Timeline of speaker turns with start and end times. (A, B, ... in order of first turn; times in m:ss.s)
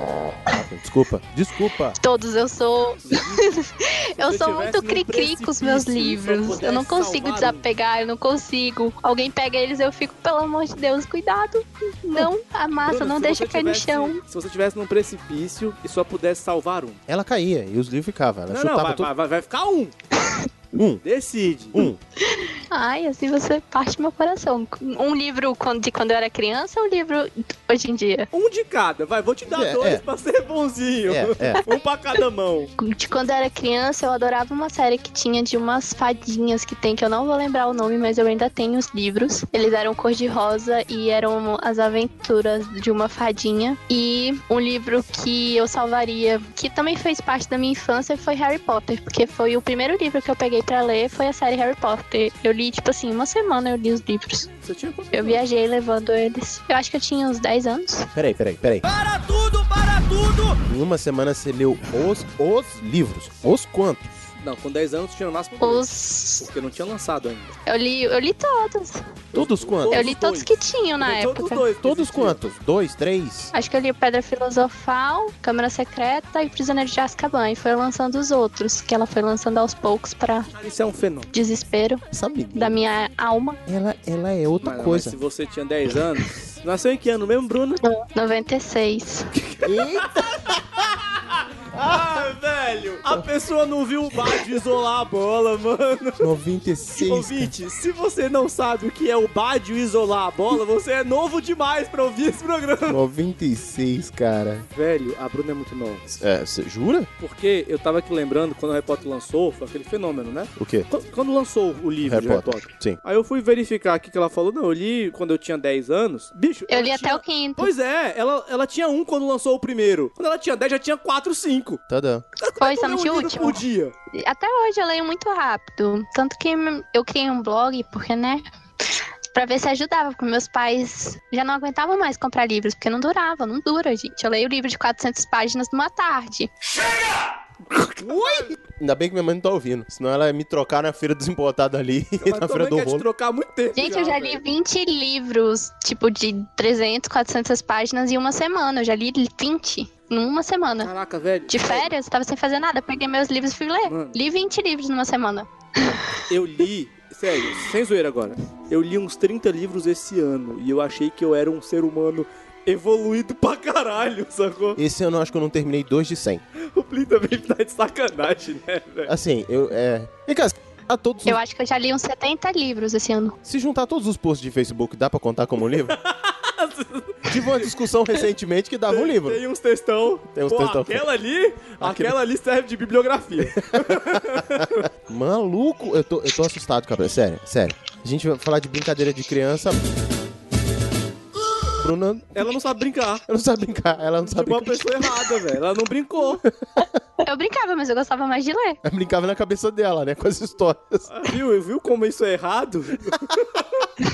0:00.5-0:02.0 A
0:02.0-0:14.2 B
0:03.0-0:03.5 C
0:04.2-0:07.6 C
0:12.9-0:17.0 C
0:17.1-0:19.1 A
0:18.5-0:20.0 C
0:20.7-0:21.0 A
0:21.0-0:21.8 C
0:21.7-0:22.0 A
0:22.3-0:28.3 B
0:28.3-0:32.7 C
0:29.5-0:30.0 A
0:31.1-0:31.6 A
0:32.8-0:54.5 B
0:54.6-0:55.4 C
0:55.1-0:58.1 B
0:58.1-0:58.9 A
0:58.9-1:00.6 C
1:00.6-1:04.1 A
1:04.4-1:05.9 C
1:05.6-1:06.5 B
1:06.4-1:07.5 C
1:07.7-1:09.1 B
1:09.3-1:10.1 A
1:09.3-1:12.4 C
1:09.9-1:11.6 B
1:11.8-1:13.5 A
1:13.5-1:20.5 B
1:20.6-1:21.3 C
1:21.3-1:22.0 B
1:22.1-1:22.8 A
1:22.5-1:23.6 B
1:23.7-1:25.2 A
1:24.6-1:27.8 C
1:27.8-1:29.3 B
1:29.3-1:30.1 C
1:29.6-1:30.6 A
1:31.0-1:36.3 C
1:36.2-1:37.5 A
1:37.0-1:43.0 C
1:42.9-1:44.7 A
1:44.8-1:46.2 C
1:46.2-1:47.1 A
1:47.2-2:01.8 C
1:50.6-1:50.9 A
1:52.0-1:53.0 A
1:56.7-1:57.7 B
2:01.9-2:02.2 A
2:02.4-2:03.9 C
2:02.6-2:03.6 B
2:04.1-2:08.4 B
2:09.3-2:16.5 B
2:17.7-2:18.6 C
2:18.6-2:23.1 A
2:22.2-2:24.4 C
2:23.8-2:30.9 B
2:30.8-2:31.9 C
2:31.5-2:36.0 B
2:33.9-2:34.2 C
2:36.3-2:44.8 C
2:44.8-2:46.4 A
2:46.6-2:49.1 C
2:49.1-2:51.4 A
2:51.3-2:53.4 B
2:53.4-2:56.0 A
2:55.8-2:57.7 C
2:57.3-2:59.4 A
2:58.9-3:04.9 C
3:00.3-3:01.1 A
3:01.8-3:02.2 A
3:03.5-3:09.8 A
3:11.8-3:12.3 A
3:12.3-3:13.2 C
3:13.3-3:14.9 A
3:14.2-3:16.4 C
3:17.2-3:18.8 B
3:18.8-3:21.1 A
3:21.1-3:23.9 C